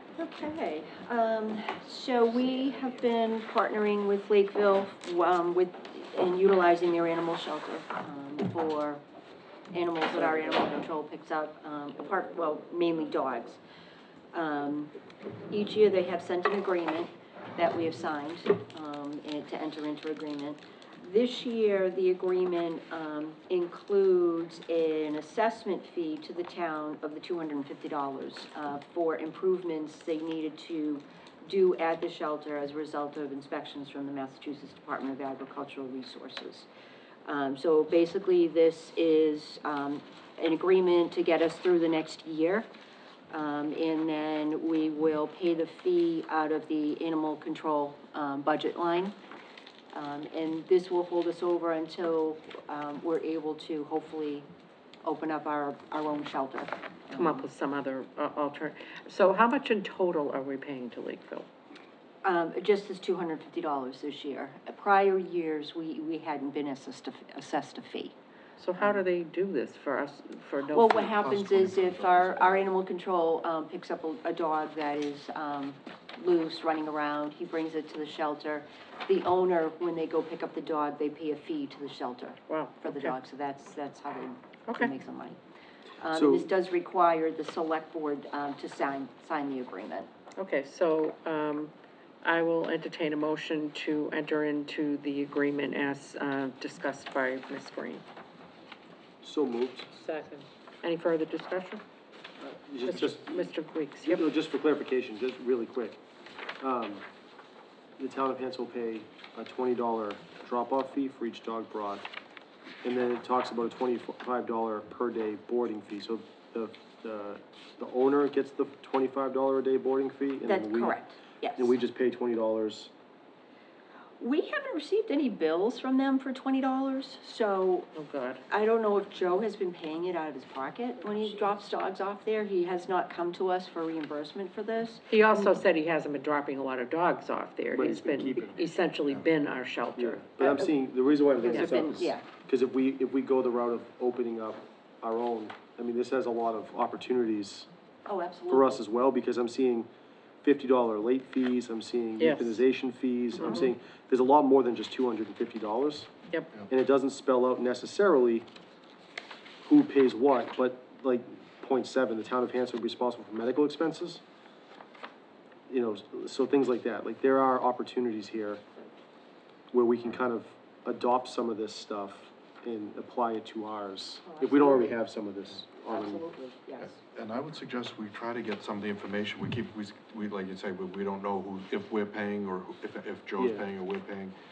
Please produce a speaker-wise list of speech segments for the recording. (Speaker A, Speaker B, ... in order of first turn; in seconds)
Speaker A: 0.1-9.0, 9.7-13.6, 14.3-14.9, 15.5-36.7, 37.2-42.7, 43.3-49.1, 49.9-54.5, 55.0-57.5, 62.2-68.1, 70.7-85.4, 86.0-90.1, 120.4-121.7, 124.2-127.9, 128.5-135.6, 140.4-140.7, 141.4-142.2, 148.1-148.8, 153.4-153.7, 174.3-174.9, 175.9-177.0
Speaker B: 57.1-61.5, 68.6-71.1, 82.5-83.2, 90.4-98.0, 99.9-101.8, 102.8-104.2, 127.9-128.4, 135.1-140.2, 152.2-152.6
Speaker C: 71.0-72.7, 176.8-184.3
Speaker D: 86.1-86.5, 99.2-99.9, 102.4-103.5, 104.0-106.0, 106.6-107.0, 108.0-112.0, 112.8-121.0, 121.6-122.9, 137.7-138.6, 140.0-147.7, 148.5-149.9, 150.4-156.1, 156.7-158.5, 159.6-164.2, 165.7-168.6, 169.7-176.2, 183.4-183.7